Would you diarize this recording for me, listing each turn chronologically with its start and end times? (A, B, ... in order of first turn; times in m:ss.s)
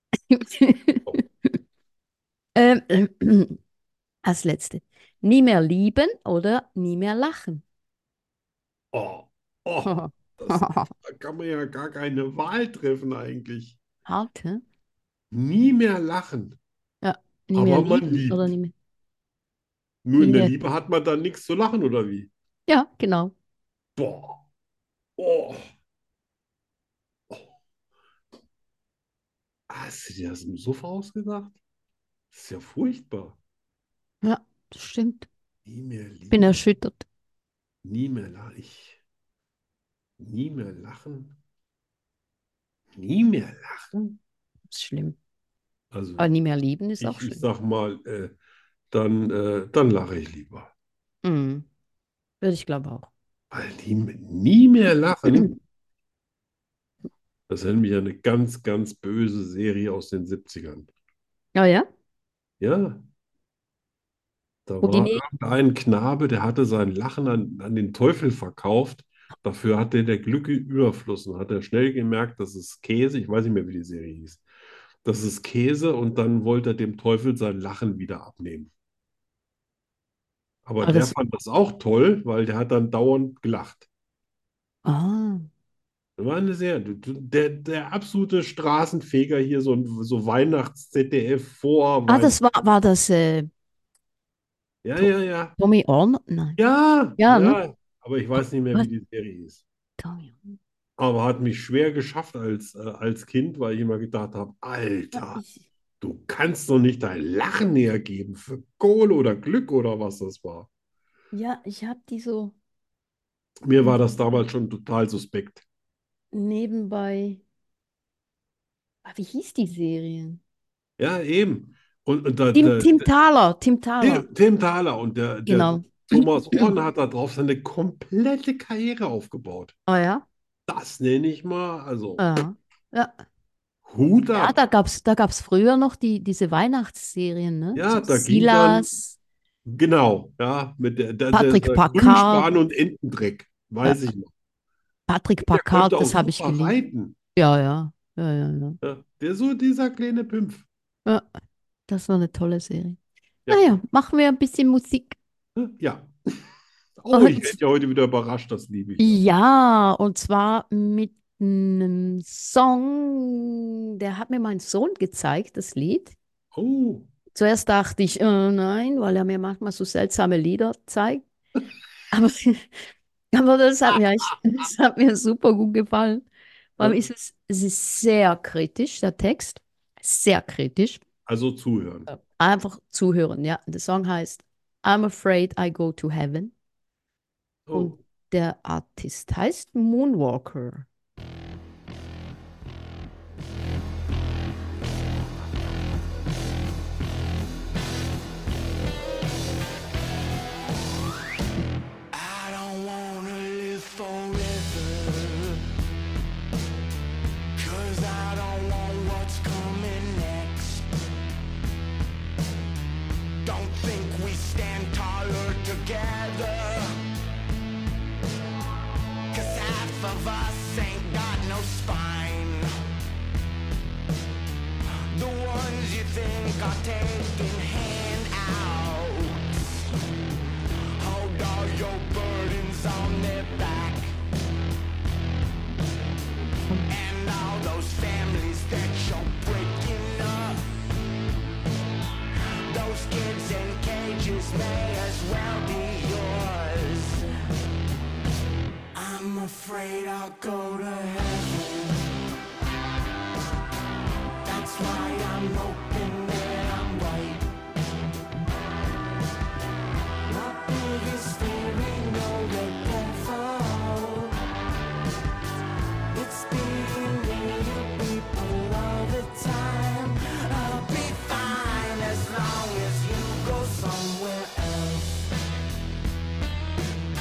0:00.3-0:01.2 A
0:02.6-0:03.6 A
0:04.2-0:07.6 A
0:08.9-0:13.8 B
0:09.8-0:10.9 A
0:14.1-0:14.6 A
0:15.3-0:16.6 B
0:17.0-0:18.7 A
0:17.5-0:18.5 B
0:20.0-0:22.3 B
0:20.2-0:20.6 A
0:22.7-0:23.3 A
0:24.0-0:24.4 B
0:25.2-0:25.7 B
0:29.7-0:31.6 B
0:32.3-0:33.4 B
0:34.2-0:35.3 A
0:35.6-0:36.5 B
0:36.3-0:37.0 A
0:37.8-0:39.0 B
0:40.2-0:41.4 B
0:42.9-0:44.2 B
0:44.7-0:45.2 A
0:45.9-0:46.3 B
0:46.2-0:47.4 A
0:47.0-0:48.4 B
0:48.9-0:50.7 B
0:51.2-0:51.7 A
0:52.4-0:53.1 A
0:53.5-0:55.5 B
0:55.3-0:55.6 A
0:57.5-1:00.9 B
1:01.6-1:01.9 A
1:02.6-1:03.0 B
1:04.7-1:14.4 B
1:04.8-1:05.2 A
1:15.0-1:18.7 B
1:20.6-1:23.9 B
1:20.8-1:21.2 A
1:24.8-1:25.5 A
1:26.2-1:32.4 B
1:32.1-1:33.5 A
1:34.8-1:35.6 B
1:35.0-1:36.6 A
1:36.6-1:39.6 B
1:37.2-1:37.6 A
1:38.4-1:38.9 A
1:40.0-1:40.6 A
1:41.0-1:45.4 B
1:45.1-1:45.7 A
1:46.0-1:50.7 B
1:51.3-1:52.6 A
1:53.6-1:55.6 B
1:56.3-1:57.4 A
1:59.0-2:00.4 A
2:01.0-2:03.1 B
2:02.5-2:04.3 A
2:04.0-2:09.8 B
2:05.5-2:06.7 A
2:09.9-2:10.2 A
2:10.7-2:12.2 B
2:12.2-2:13.2 A
2:13.8-2:14.6 B
2:14.3-2:19.2 A
2:17.8-2:18.9 B
2:19.6-2:24.3 B
2:21.3-2:22.5 A
2:25.1-2:26.8 A
2:25.5-2:27.2 B
2:27.4-2:28.8 A
2:28.8-2:30.7 B
2:31.9-2:35.2 A
2:33.5-2:33.8 B
2:35.6-2:36.4 B
2:37.0-2:39.2 B
2:37.1-2:37.6 A
2:39.0-2:46.2 A
2:46.5-2:47.1 B
2:47.3-2:51.2 A
2:52.1-2:52.8 A
2:53.3-2:56.3 A
2:56.8-3:01.0 A
3:01.3-3:02.1 B
3:02.1-3:06.5 A
3:07.7-3:08.0 B
3:07.7-3:10.9 A
3:22.1-3:25.6 C
3:27.6-3:30.9 C
3:33.4-3:37.0 C
3:39.3-3:42.8 C
3:45.1-3:49.7 C
3:51.0-3:54.1 C
3:56.9-4:00.7 C
4:02.7-4:07.3 C
4:08.9-4:12.0 C
4:14.4-4:17.5 C
4:20.3-4:24.4 C
4:26.1-4:35.3 C